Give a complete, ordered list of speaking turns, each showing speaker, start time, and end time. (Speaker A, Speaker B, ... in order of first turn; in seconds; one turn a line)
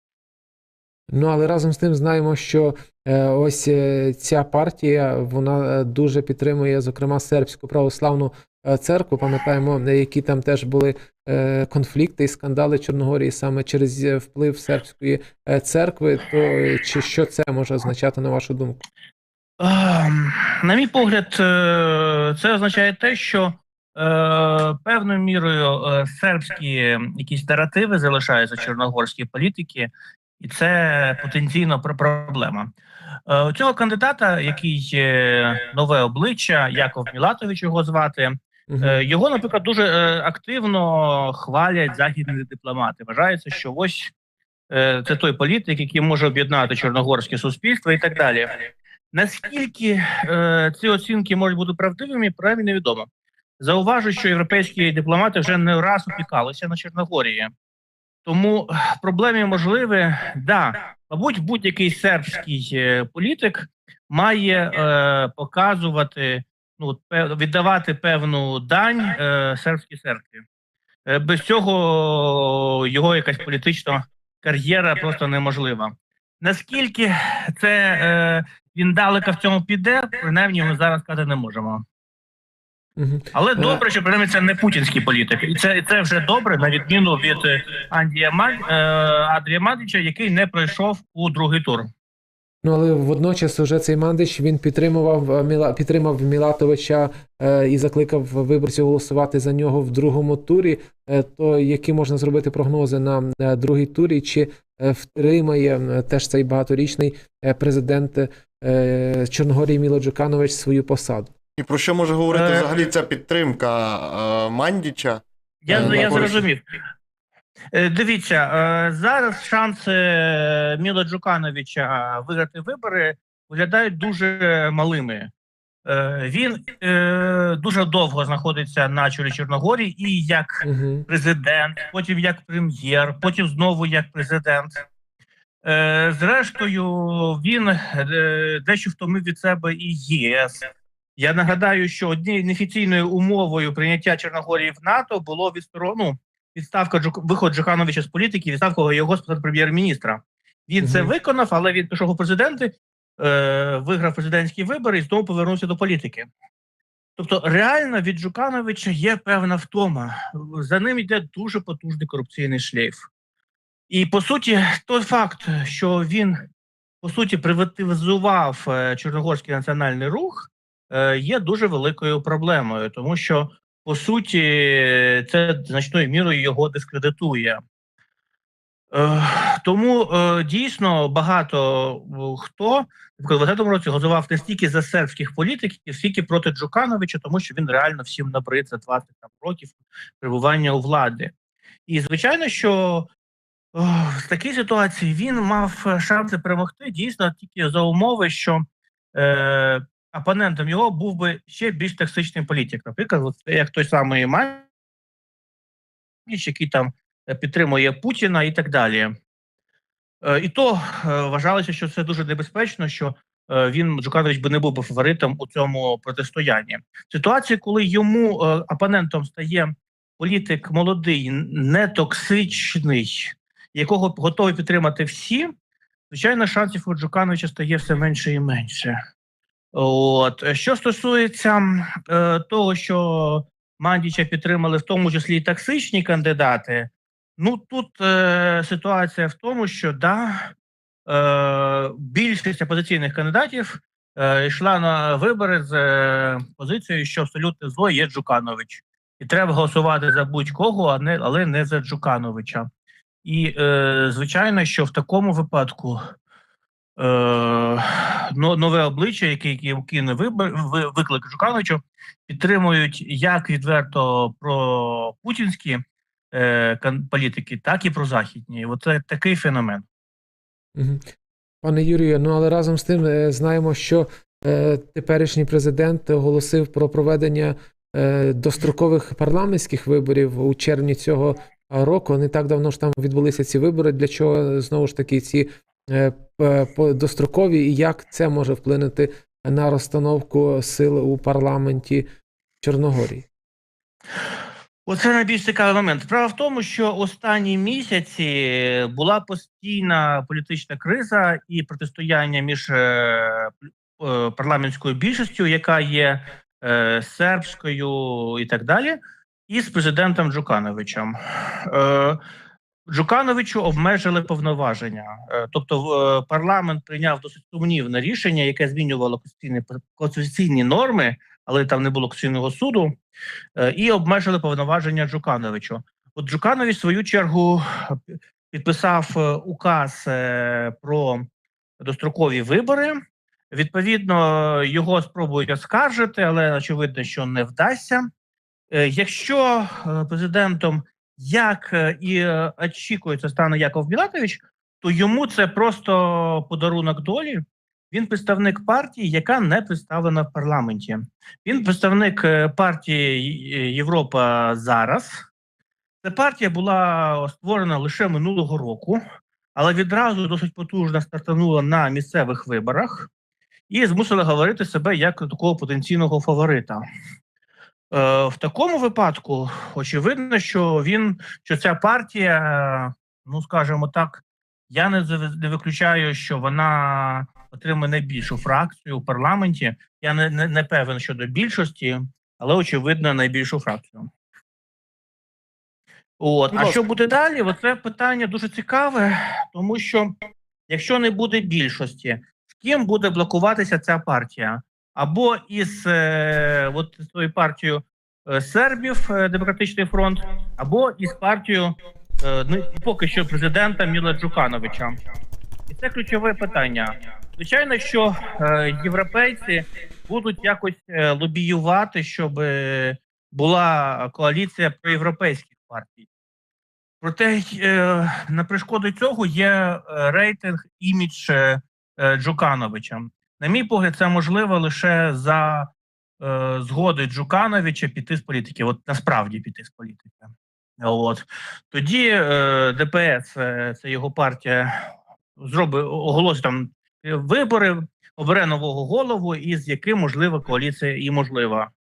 Speaker A: 1.1-18.8
Speaker B: 19.6-32.7
Speaker B: 33.3-44.1
Speaker A: 38.7-39.0
Speaker B: 44.7-53.1
Speaker B: 53.6-57.5
Speaker B: 58.2-70.4
Speaker B: 71.1-81.8
Speaker A: 83.0-83.8
Speaker B: 83.3-91.9
Speaker A: 92.6-111.3
Speaker C: 111.6-115.2
Speaker B: 112.3-112.7
Speaker B: 115.6-116.6
Speaker A: 115.7-116.3
Speaker C: 115.7-116.4
Speaker B: 117.7-125.3
Speaker B: 125.8-134.9
Speaker A: 130.6-131.0
Speaker B: 135.6-156.3
Speaker A: 150.8-151.1
Speaker B: 157.2-163.1
Speaker B: 163.9-166.5
Speaker B: 167.0-177.6
Speaker B: 178.9-191.3
Speaker B: 191.9-193.1
Speaker B: 193.7-204.7
Speaker B: 206.2-209.1
Speaker B: 210.2-225.5
Speaker B: 226.1-229.0
Speaker B: 229.7-240.5
Speaker B: 241.1-252.7
Speaker B: 253.2-256.1
Speaker B: 257.0-269.8
Speaker A: 270.8-271.0
Speaker A: 271.6-292.1
Speaker A: 292.6-293.3
Speaker B: 294.9-312.2
Speaker B: 312.9-323.0
Speaker B: 323.6-331.2
Speaker B: 331.8-333.0
Speaker B: 333.5-338.1
Speaker B: 338.7-355.3
Speaker B: 356.0-359.0
Speaker B: 359.6-363.1
Speaker B: 363.7-366.8
Speaker B: 367.9-384.1
Speaker B: 386.2-390.1
Speaker B: 390.7-405.0
Speaker B: 405.7-416.1
Speaker B: 417.0-441.7